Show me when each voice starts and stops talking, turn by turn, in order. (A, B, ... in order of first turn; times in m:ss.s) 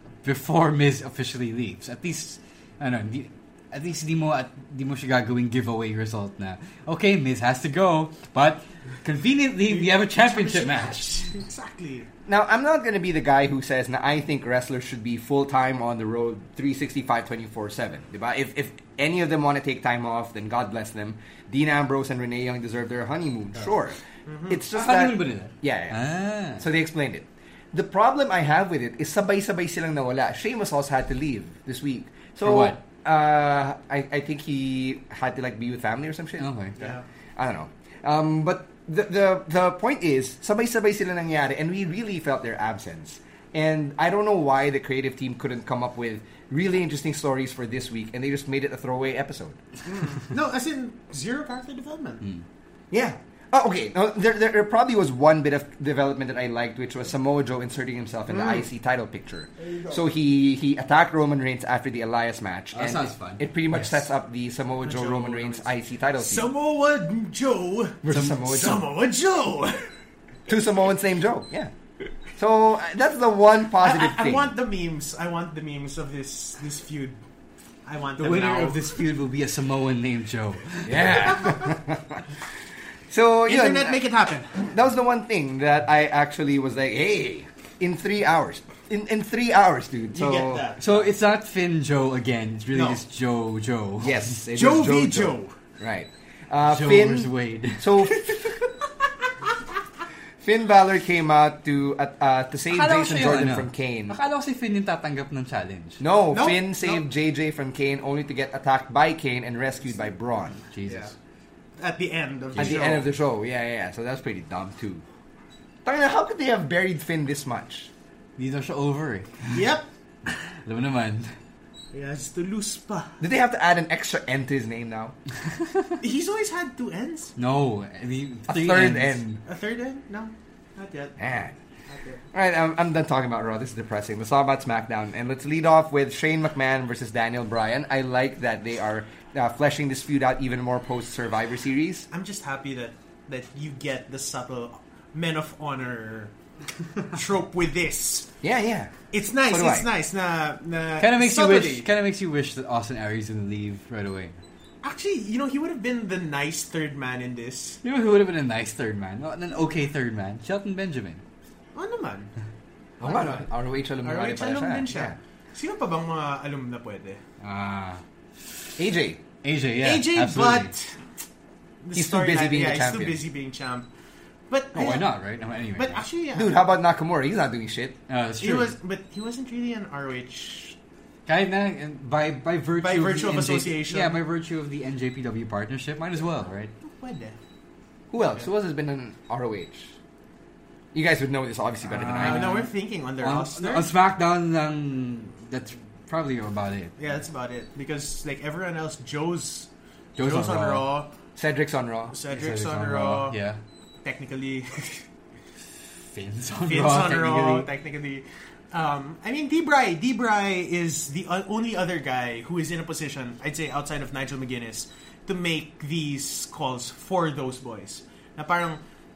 0:00.2-0:11.2 A
0:09.7-0:12.1 B
0:12.3-0:26.0 C
0:24.2-0:24.6 B
0:24.7-0:26.6 A
0:26.6-0:49.6 C
0:32.4-0:32.8 A
0:36.4-0:36.7 A
0:36.8-0:37.0 B
0:49.8-0:52.2 B
0:52.9-1:06.5 C
0:58.3-0:58.6 B
0:59.7-0:59.9 B
1:02.7-1:04.0 A
1:04.8-1:09.9 B
1:08.0-1:08.9 C
1:10.5-1:11.7 C
1:12.4-1:14.5 C
1:13.8-1:17.2 B
1:17.8-1:18.9 B
1:18.2-1:21.5 A
1:20.8-1:22.2 C
1:23.1-1:24.0 C
1:23.5-1:24.6 B
1:24.6-1:30.6 C
1:30.1-1:31.1 B
1:30.8-1:34.3 A
1:32.7-1:33.0 B
1:34.0-1:38.4 C
1:34.5-1:35.5 B
1:36.6-1:38.1 A
1:40.4-1:44.2 C
1:42.7-1:46.0 A
1:46.0-1:50.6 C
1:46.3-1:47.0 B
1:50.7-1:51.1 A
1:51.8-1:53.0 B
1:52.6-1:55.0 C
1:55.8-1:57.9 C
1:58.4-1:59.6 A
1:59.5-1:59.8 B
2:00.6-2:01.3 A
2:01.9-2:03.2 B
2:03.2-2:05.1 C
2:05.5-2:06.0 A
2:06.0-2:07.3 B
2:07.4-2:09.4 A
2:08.5-2:09.3 C
2:09.4-2:11.2 B
2:11.2-2:11.5 C
2:11.9-2:12.2 B
2:12.3-2:22.1 C
2:22.1-2:26.3 B
2:27.1-2:28.3 B
2:28.4-2:28.9 C
2:29.1-2:31.9 B
2:29.5-2:29.9 C
2:31.0-2:34.4 A
2:34.8-2:37.8 B
2:37.8-2:41.2 A
2:41.7-2:42.3 B
2:43.0-2:45.2 C
2:43.0-2:43.4 B
2:44.0-2:47.2 B
2:47.4-2:48.0 A
2:48.8-2:49.2 C
2:49.4-2:50.7 A
2:49.8-2:51.0 B
2:51.8-2:53.9 B
2:51.9-2:53.2 C
2:54.5-2:55.1 B
2:54.7-2:56.0 A
2:55.7-2:56.6 B
2:56.3-2:58.0 C
2:58.1-2:58.7 A
2:58.4-3:00.8 B
3:01.3-3:06.7 A
3:02.8-3:04.2 B
3:06.8-3:07.4 B
3:08.1-3:09.9 C
3:10.9-3:12.6 C
3:11.9-3:17.0 A
3:12.2-3:13.9 B
3:17.0-3:19.7 B
3:20.2-3:20.8 A
3:20.2-3:21.1 B
3:21.4-3:22.2 C
3:22.1-3:23.4 B
3:22.3-3:23.6 A
3:24.0-3:25.0 B
3:26.1-3:27.7 A
3:26.7-3:38.8 B